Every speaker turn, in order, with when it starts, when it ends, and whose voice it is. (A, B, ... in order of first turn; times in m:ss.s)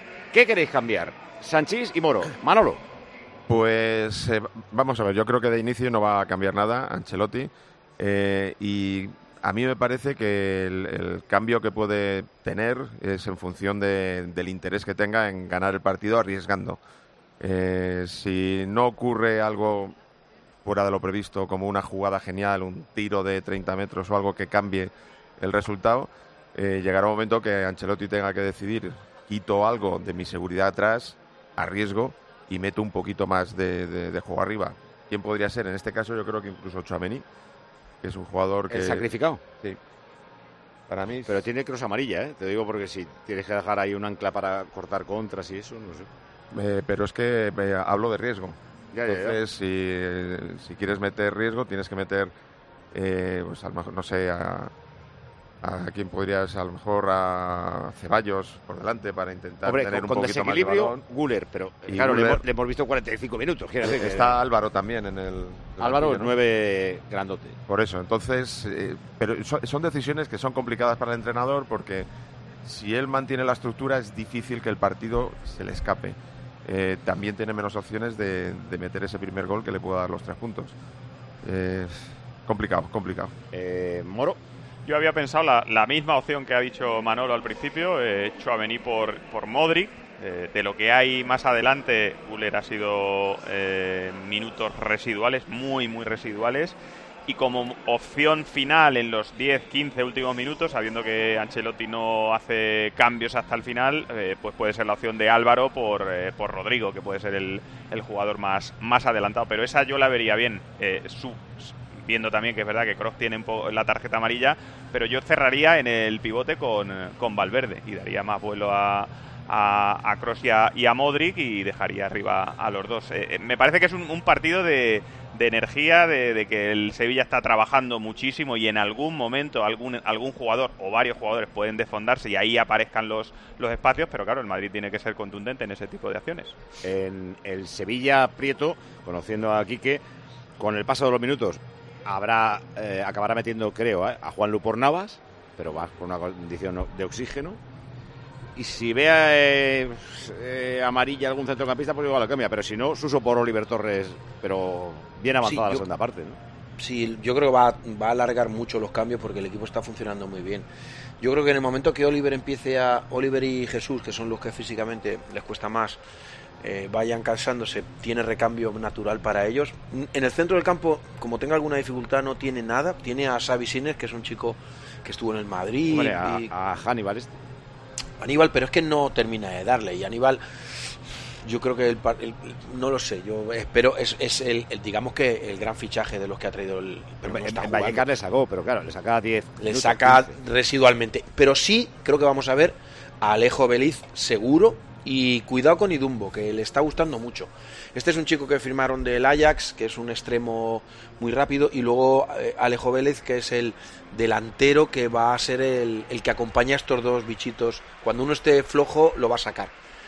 0:00.3-0:02.8 A
0:03.5-0:16.8 B
0:17.4-0:20.0 B
0:20.6-0:37.2 B
0:38.0-0:39.1 B
0:38.7-0:39.4 A
0:40.9-0:41.3 B
0:41.3-0:46.1 A
0:46.5-0:52.3 B
0:48.9-0:49.4 A
0:52.9-0:54.7 B
0:55.6-1:01.0 B
0:59.6-1:04.4 A
1:01.9-1:02.4 B
1:03.8-1:06.3 B
1:05.8-1:07.6 A
1:07.7-1:12.1 B
1:12.6-1:20.8 B
1:21.4-1:23.3 B
1:23.5-1:24.4 A
1:24.8-1:36.8 C
1:37.3-2:16.6 C
2:16.8-2:20.0 A
2:20.6-2:27.6 A
2:28.6-2:36.4 A
2:35.4-2:35.8 D
2:36.8-2:40.7 D
2:41.2-2:46.0 D
2:46.6-2:56.5 D
2:55.9-2:57.4 A
2:58.2-3:08.1 D
3:07.2-3:10.4 A
3:09.6-3:29.7 D